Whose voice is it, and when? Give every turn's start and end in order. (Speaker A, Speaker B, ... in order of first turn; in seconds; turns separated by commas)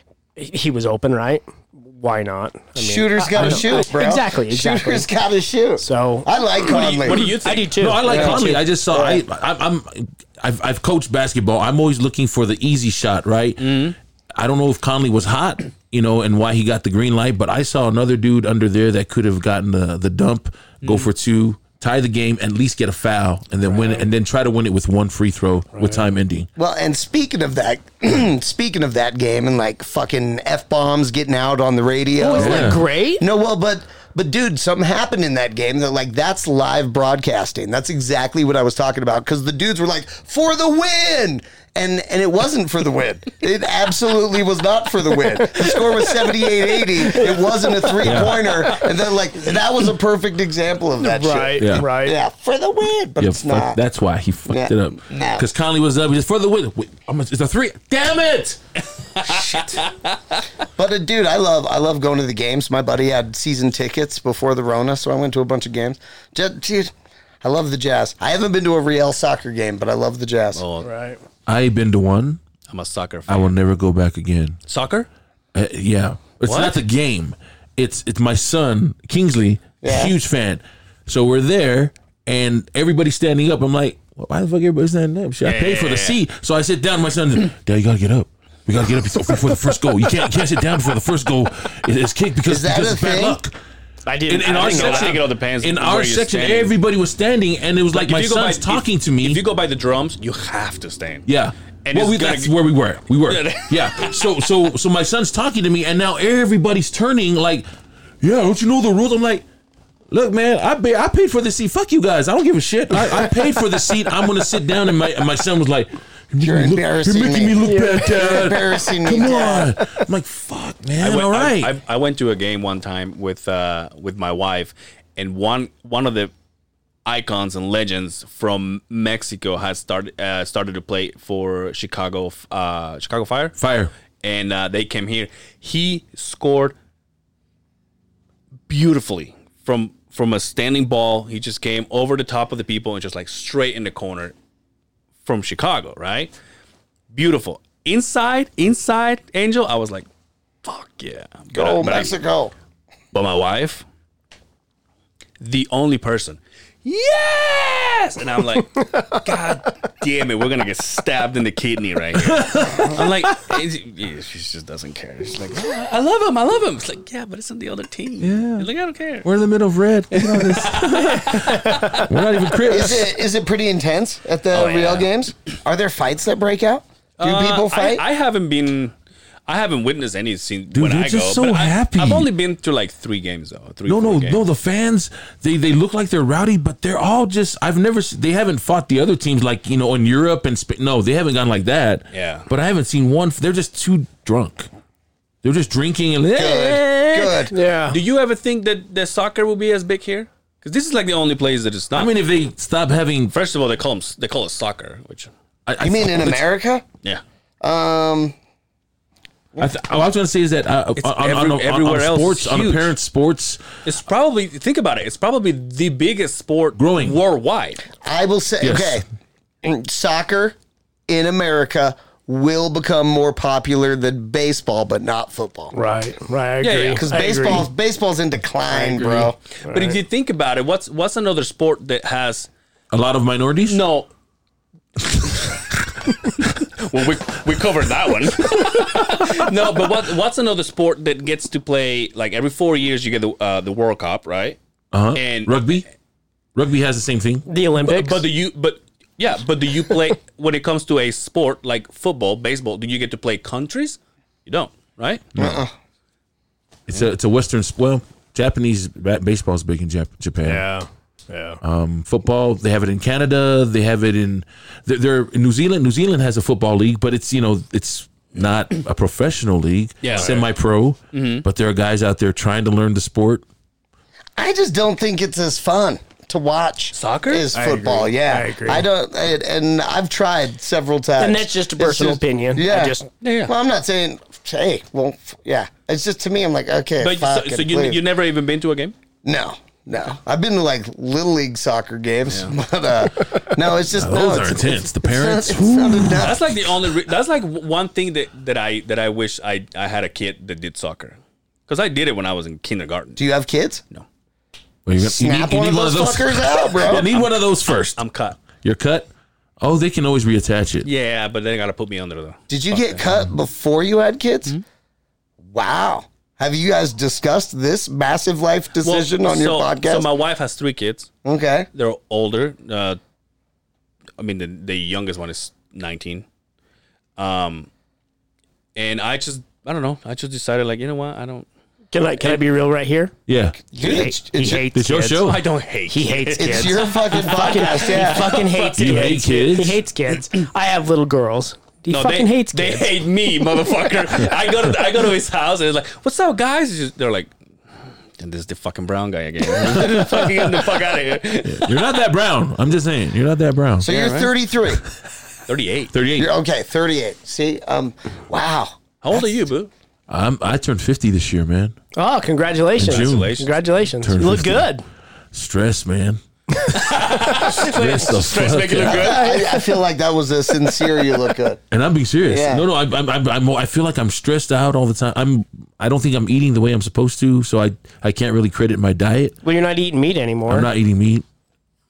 Speaker A: 0.3-5.1, Speaker B: 2.8-7.2, Speaker A: 5.8-8.6, Speaker C: 6.6-7.8, Speaker D: 7.8-26.5, Speaker B: 8.1-9.2, Speaker C: 13.6-13.9, Speaker C: 20.8-21.1, Speaker A: 25.7-26.0, Speaker B: 26.6-53.8, Speaker A: 32.2-33.2, Speaker D: 32.4-32.8, Speaker A: 47.1-48.0, Speaker D: 48.0-48.4, Speaker A: 51.0-52.1, Speaker D: 51.6-51.9, Speaker D: 53.2-58.6, Speaker B: 54.5-55.5, Speaker C: 59.2-60.1, Speaker D: 59.3-59.8, Speaker B: 60.8-70.6, Speaker C: 70.5-70.9, Speaker A: 70.8-71.2, Speaker D: 71.5-72.4, Speaker C: 72.7-73.5, Speaker D: 73.3-74.6, Speaker C: 74.7-75.1, Speaker D: 75.5-93.5, Speaker C: 76.4-76.8, Speaker B: 79.8-80.1, Speaker C: 85.4-86.2, Speaker B: 92.5-93.4, Speaker A: 94.0-95.1, Speaker D: 94.3-99.4, Speaker C: 94.5-96.7, Speaker C: 97.9-101.3, Speaker D: 101.3-107.7, Speaker C: 101.8-102.6, Speaker C: 103.2-104.2, Speaker D: 108.2-109.4, Speaker D: 110.1-121.7, Speaker B: 116.4-119.8, Speaker A: 117.6-118.2, Speaker C: 121.0-126.3, Speaker C: 127.0-133.6, Speaker D: 133.6-133.9, Speaker C: 134.2-136.7, Speaker C: 138.7-144.3, Speaker C: 145.2-146.3, Speaker C: 147.1-150.1, Speaker C: 150.6-152.1, Speaker B: 151.5-152.5, Speaker C: 153.1-153.8, Speaker C: 155.4-169.3, Speaker A: 158.9-159.2, Speaker D: 162.2-163.3, Speaker D: 168.2-168.7, Speaker D: 169.2-173.1, Speaker C: 170.1-172.1, Speaker B: 172.7-178.0, Speaker C: 174.5-175.1, Speaker C: 177.2-178.9, Speaker C: 179.5-184.4, Speaker D: 180.7-182.3, Speaker D: 183.9-194.7, Speaker C: 192.1-192.5, Speaker D: 195.4-197.4, Speaker B: 196.3-197.5, Speaker A: 197.5-198.0, Speaker C: 197.9-202.1, Speaker D: 201.9-203.3, Speaker C: 203.3-205.3, Speaker D: 205.7-206.4, Speaker B: 205.8-206.8, Speaker B: 207.6-208.3, Speaker D: 209.6-213.6, Speaker C: 211.0-212.9, Speaker C: 213.8-217.8, Speaker D: 216.8-217.2, Speaker B: 218.0-219.0, Speaker D: 218.6-219.0, Speaker B: 219.6-220.6, Speaker B: 221.1-225.7, Speaker A: 225.7-227.7, Speaker C: 226.6-227.0, Speaker B: 226.9-229.4, Speaker C: 228.7-232.5, Speaker A: 229.6-229.9, Speaker D: 232.9-233.8, Speaker C: 233.7-234.1, Speaker C: 236.8-244.6, Speaker D: 244.9-245.8, Speaker C: 245.1-245.6, Speaker D: 246.5-247.4, Speaker A: 247.4-248.2, Speaker C: 247.8-255.3, Speaker D: 255.3-255.6, Speaker B: 255.4-255.7, Speaker D: 256.9-260.6, Speaker A: 260.4-261.6, Speaker D: 261.6-273.4, Speaker C: 270.0-270.4, Speaker C: 271.1-271.4, Speaker B: 274.4-288.0, Speaker C: 276.9-278.1, Speaker A: 278.2-278.9, Speaker A: 281.2-283.1, Speaker C: 283.2-283.5, Speaker C: 287.0-288.9, Speaker B: 289.2-296.6, Speaker C: 292.3-292.5, Speaker D: 293.9-296.5, Speaker C: 296.2-303.2, Speaker B: 303.2-303.8, Speaker D: 304.9-309.1, Speaker B: 305.0-307.1, Speaker C: 306.9-308.4, Speaker D: 309.6-310.9, Speaker C: 310.8-313.0, Speaker B: 312.5-314.5, Speaker B: 315.5-320.1, Speaker C: 318.8-321.1, Speaker B: 321.2-321.7, Speaker C: 321.7-323.0, Speaker C: 324.2-326.2, Speaker C: 327.2-327.7, Speaker C: 328.7-331.5, Speaker A: 331.9-333.1, Speaker D: 333.3-333.7, Speaker B: 333.7-334.6, Speaker A: 333.8-335.3, Speaker D: 334.5-335.4, Speaker C: 335.2-339.2, Speaker A: 335.9-342.9, Speaker B: 336.4-338.4, Speaker D: 338.7-339.8, Speaker C: 341.9-347.3, Speaker C: 348.2-351.9, Speaker D: 349.6-350.5, Speaker D: 351.4-353.9, Speaker B: 353.8-354.8, Speaker C: 353.8-354.3, Speaker C: 355.5-355.9, Speaker D: 355.9-356.3, Speaker B: 356.1-358.8, Speaker C: 359.0-359.7, Speaker D: 360.1-361.7, Speaker A: 361.9-364.8, Speaker D: 362.8-363.4, Speaker C: 362.8-363.5, Speaker D: 364.0-364.7, Speaker D: 365.3-369.1, Speaker C: 366.7-369.4, Speaker B: 368.9-371.6, Speaker A: 369.1-369.6, Speaker D: 371.7-379.3, Speaker B: 372.2-372.6, Speaker A: 379.4-380.7, Speaker D: 380.5-381.2